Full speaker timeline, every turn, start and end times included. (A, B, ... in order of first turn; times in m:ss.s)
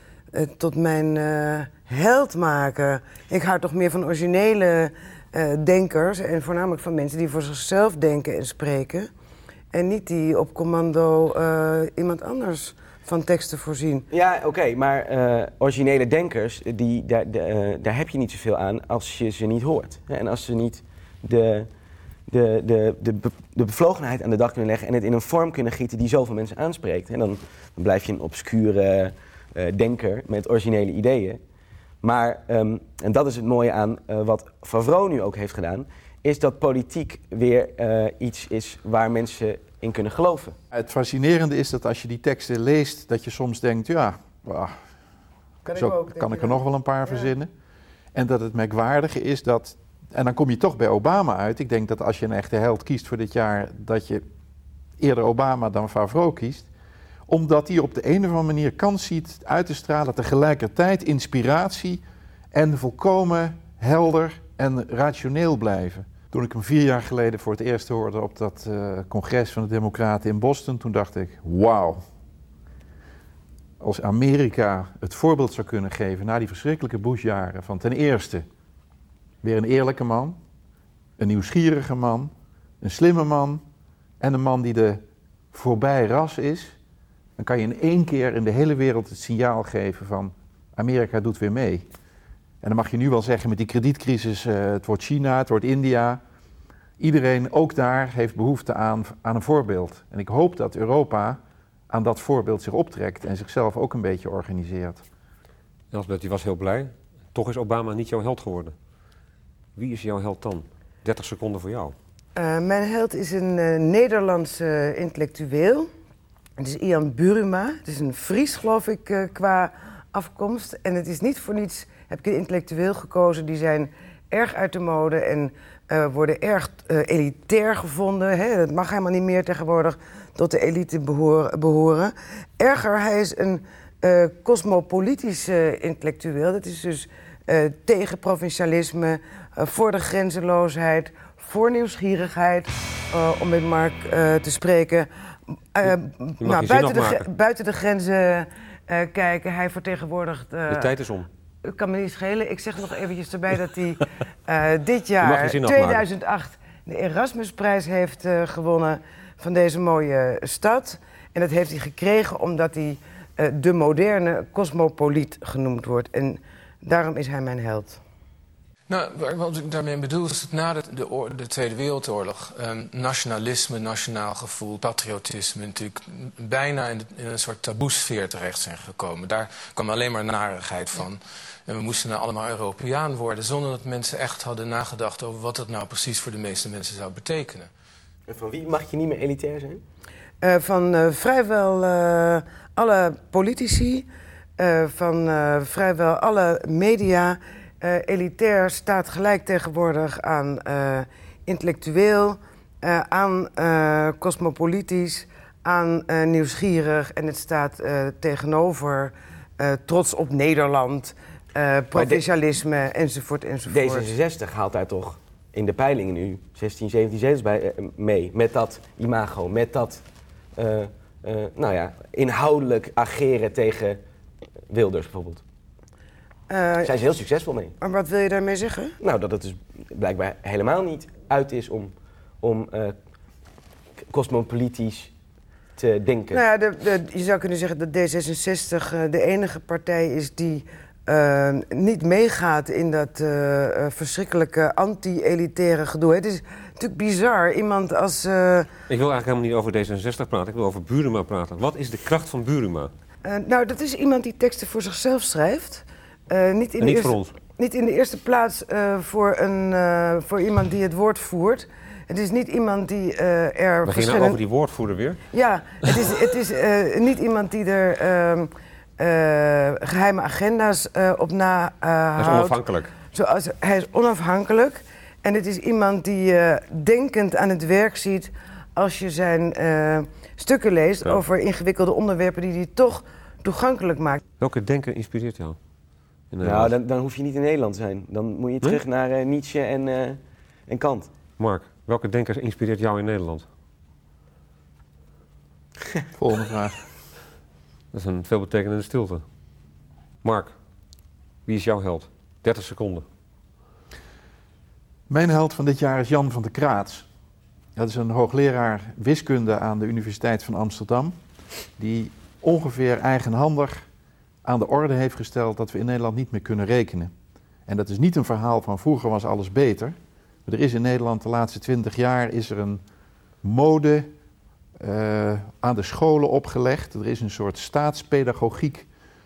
0:00.3-0:09.1 A
0:09.7-0:14.0 A
0:14.1-0:21.7 B
0:22.3-0:31.4 B
0:32.0-0:40.6 B
0:40.7-0:44.8 C
0:45.6-0:47.3 A
0:45.7-0:47.5 C
0:48.1-0:54.2 C
0:55.0-0:56.7 C
0:57.3-1:02.0 C
1:02.5-1:12.0 C
1:13.8-1:18.4 C
1:19.4-1:20.4 C
1:21.2-1:23.6 C
1:24.2-1:26.8 C
1:27.4-1:31.8 C
1:32.6-1:36.2 C
1:37.0-1:45.0 C
1:45.9-1:48.7 D
1:49.8-1:51.9 D
1:52.4-1:55.9 A
1:56.6-2:25.1 A
2:25.7-2:30.9 A
2:26.4-2:27.2 D
2:30.7-2:31.3 D
2:31.6-2:48.0 A
2:35.2-2:36.0 D
2:48.9-3:07.7 E
3:08.3-3:09.8 B
3:10.4-3:14.1 A
3:14.6-3:34.1 A
3:33.7-3:40.0 B
3:40.6-3:44.0 B
3:44.7-3:45.4 B
3:46.5-3:46.9 A
3:46.8-3:47.7 B
3:47.8-3:49.0 A
3:49.0-3:52.9 B
3:54.1-3:55.1 B
3:55.8-3:56.4 B
3:56.3-4:08.7 A
4:08.9-4:12.9 D
4:13.2-4:24.4 A
4:16.8-4:17.3 D
4:23.8-4:25.2 D
4:25.3-4:44.2 A
4:32.2-4:32.9 D
4:44.4-4:45.6 D
4:46.3-4:46.7 D
4:46.4-4:51.1 B
4:51.4-4:53.4 D
4:56.1-4:56.8 C
4:57.9-4:59.2 D
5:00.2-5:00.5 D
5:01.4-5:03.0 D
5:05.1-5:07.0 C
5:07.8-5:11.1 C
5:11.8-5:13.8 C
5:14.4-5:17.1 C
5:17.7-5:22.8 C
5:23.4-5:24.1 C
5:24.8-5:28.9 C